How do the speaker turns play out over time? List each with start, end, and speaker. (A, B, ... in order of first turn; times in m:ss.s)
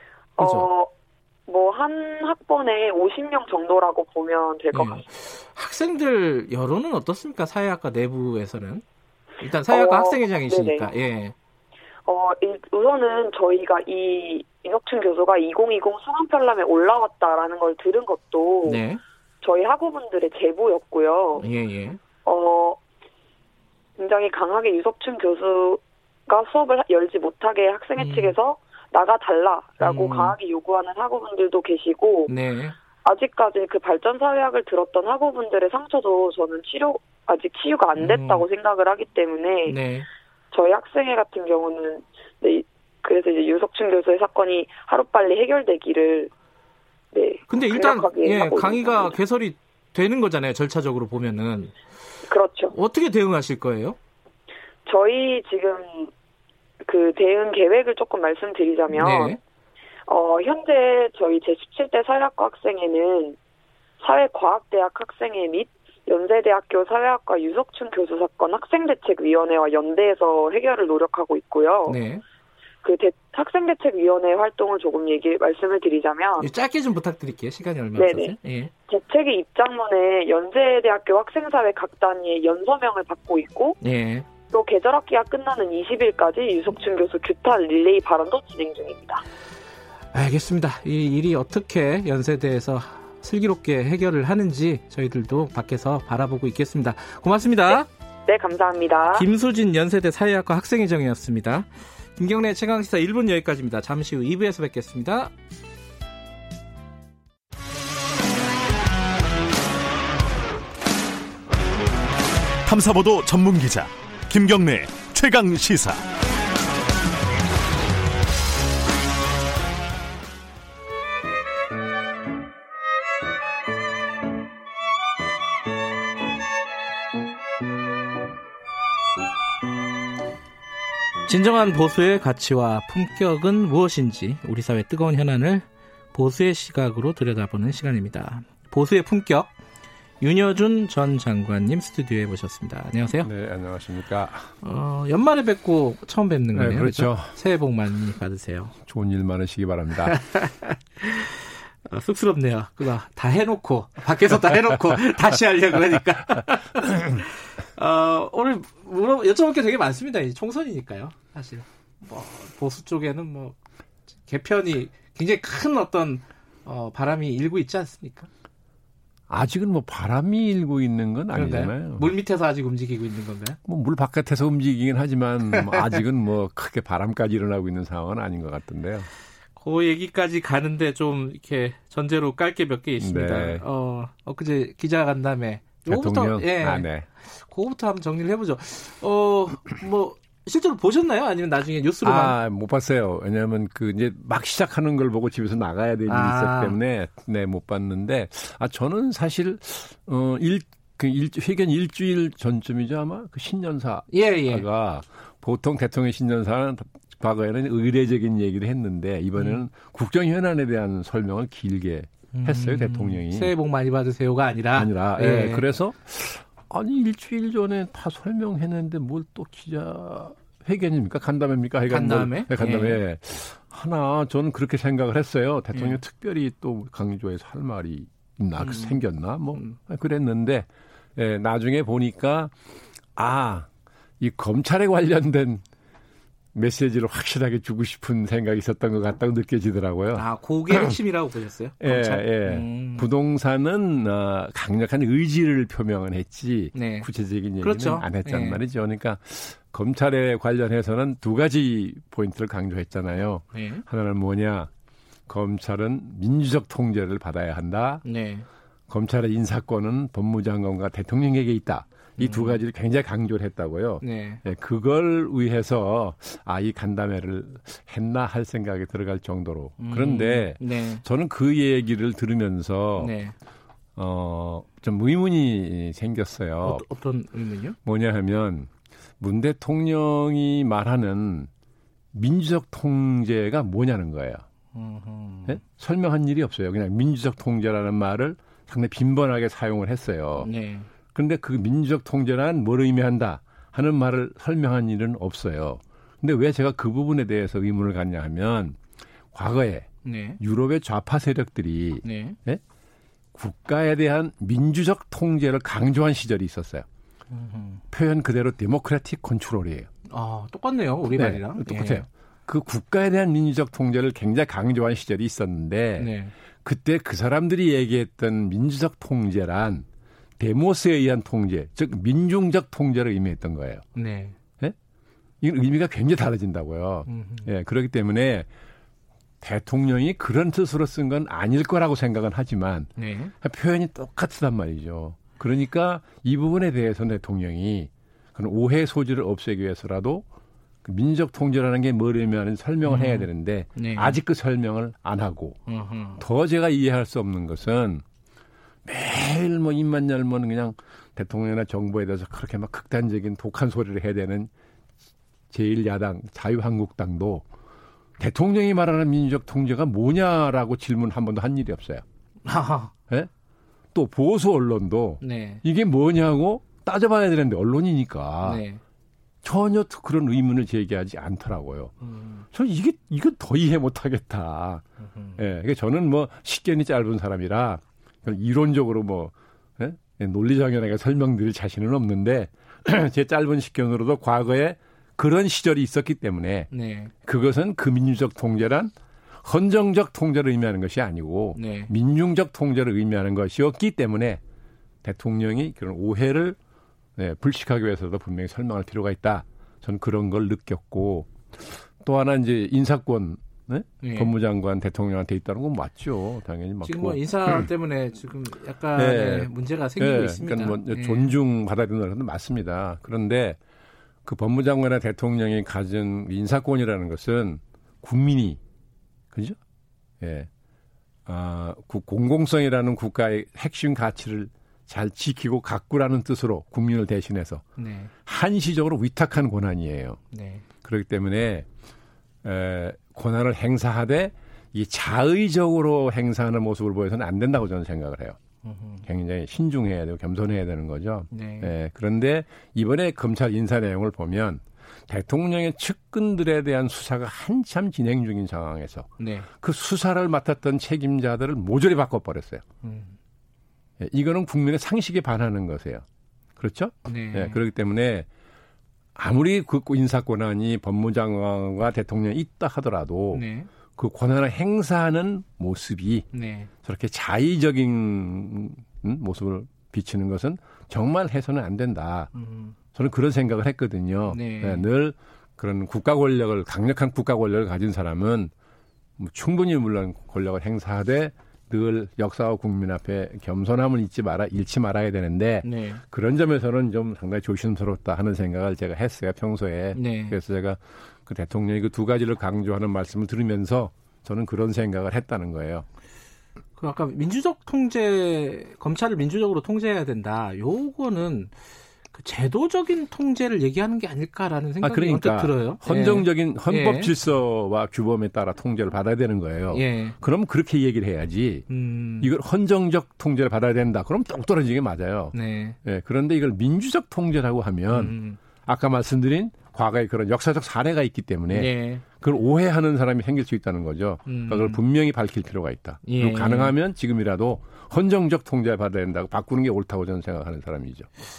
0:00.4-0:00.9 A
0:00.4-0:00.7 B
0:01.5-0:05.0 A
0:04.7-0:08.8 B
0:09.4-0:11.4 B
0:09.7-0:10.9 A
0:12.1-0:18.8 A
0:18.6-0:19.0 B
0:19.4-0:21.4 A
0:21.4-0:22.0 B
0:22.2-0:22.8 A
0:24.0-0:32.3 A
0:28.0-0:28.4 B
0:29.8-0:30.4 B
0:32.3-0:32.8 B
0:33.0-0:39.8 A
0:38.0-0:38.5 B
0:39.7-0:40.1 B
0:40.5-0:46.3 A
0:47.1-0:49.2 A
0:47.5-0:51.7 B
0:52.3-0:52.7 A
0:52.7-0:54.0 B
0:54.9-0:56.1 A
0:56.8-0:59.4 A
0:58.9-0:59.4 B
1:00.1-1:03.4 A
1:04.0-1:12.0 A
1:11.9-1:12.2 B
1:12.8-1:16.5 A
1:16.4-1:18.7 B
1:18.0-1:18.4 A
1:18.9-1:23.8 A
1:23.8-1:24.3 B
1:24.5-1:29.2 A
1:30.1-1:37.9 B
1:37.7-1:39.3 A
1:39.1-1:45.3 B
1:52.6-1:56.0 C
2:11.3-2:19.5 B
2:20.2-2:23.3 B
2:23.2-2:24.5 D
2:24.6-2:28.8 B
2:26.5-2:27.4 D
2:28.9-2:30.2 D
2:30.1-2:43.6 B
2:44.3-2:48.3 B
2:49.3-2:52.1 D
2:51.4-2:53.6 B
2:53.7-2:59.1 D
2:55.7-2:56.0 B
2:59.6-3:12.4 B
3:03.0-3:03.6 D
3:05.9-3:07.1 D
3:12.0-3:33.5 D
3:16.1-3:16.8 B
3:24.1-3:24.6 B
3:29.4-3:29.6 B
3:32.3-3:35.6 B
3:34.8-3:52.5 D
3:41.9-3:43.0 B
3:48.6-3:49.0 B
3:53.2-3:53.7 D
3:54.2-3:55.6 D
3:56.6-4:01.0 D
4:00.2-4:03.1 B
4:01.8-4:14.7 D
4:06.8-4:07.1 B
4:07.6-4:08.6 B
4:13.5-4:13.8 B
4:15.3-4:18.0 D
4:18.0-4:18.5 B
4:18.9-4:33.1 D
4:22.2-4:22.6 B
4:24.0-4:24.4 B
4:29.8-4:31.0 B
4:33.0-4:33.3 B
4:34.0-4:36.8 D
4:36.6-4:37.8 B
4:37.8-4:41.5 D
4:42.1-4:44.4 D
4:44.7-4:45.6 B
4:45.5-4:50.5 D
4:50.4-4:50.9 B
4:51.1-4:58.8 D
4:59.3-4:59.9 D
5:00.0-5:00.4 B
5:00.4-5:02.6 D
5:02.0-5:02.4 B
5:03.4-5:06.8 D
5:07.3-5:07.8 B
5:07.9-5:09.9 D
5:10.1-5:12.0 B
5:11.2-5:16.1 D
5:16.0-5:16.3 B
5:16.6-5:19.8 D
5:20.4-5:23.8 D
5:24.0-5:24.4 B
5:25.4-5:28.5 D
5:27.1-5:27.5 B
5:29.4-5:40.2 D
5:33.0-5:33.3 B
5:40.8-5:45.6 D
5:42.9-5:44.2 B
5:45.7-5:46.2 B
5:46.2-5:48.0 D
5:48.9-5:54.5 D
5:55.5-5:57.4 D
5:58.2-6:02.0 D
6:02.4-6:02.9 B
6:03.9-6:08.6 D
6:05.2-6:05.6 B
6:08.4-6:08.8 B
6:09.4-6:11.9 D
6:12.0-6:12.5 B
6:12.5-6:14.8 D
6:15.0-6:15.4 B
6:15.4-6:26.7 D
6:26.7-6:27.1 B
6:27.2-6:28.9 D
6:29.4-6:34.4 D
6:31.6-6:31.9 B
6:35.0-6:36.6 D
6:37.2-6:47.7 D
6:44.0-6:44.3 B
6:46.8-6:51.3 B
6:49.0-6:53.6 D
6:54.2-6:58.6 D
6:59.3-6:59.6 D
7:00.2-7:00.5 D
7:01.3-7:07.7 D
7:07.8-7:08.1 B
7:08.2-7:10.2 D
7:10.3-7:10.6 B
7:10.8-7:11.7 D
7:12.4-7:18.4 D
7:18.6-7:19.0 B
7:19.1-7:29.1 D
7:21.3-7:21.7 B
7:29.2-7:29.5 B
7:29.6-7:32.6 D
7:32.8-7:33.2 B
7:34.0-7:36.0 D
7:36.6-7:38.3 D
7:37.1-7:37.6 B
7:39.2-7:46.3 D
7:43.3-7:43.7 B
7:46.3-7:46.7 B
7:46.8-7:52.3 D
7:52.3-7:52.8 B
7:52.9-7:58.5 D
7:54.3-7:54.9 B
7:59.2-8:15.9 D
8:05.6-8:06.0 B
8:10.0-8:10.4 B
8:16.8-8:21.5 B
8:22.1-8:27.1 B
8:24.8-8:31.6 D
8:29.7-8:30.2 B
8:31.7-8:32.3 B
8:32.2-8:35.3 D
8:35.3-8:35.8 B
8:35.8-8:51.1 D
8:37.9-8:38.4 B
8:41.5-8:42.0 B
8:44.3-8:44.8 B
8:46.0-8:46.7 B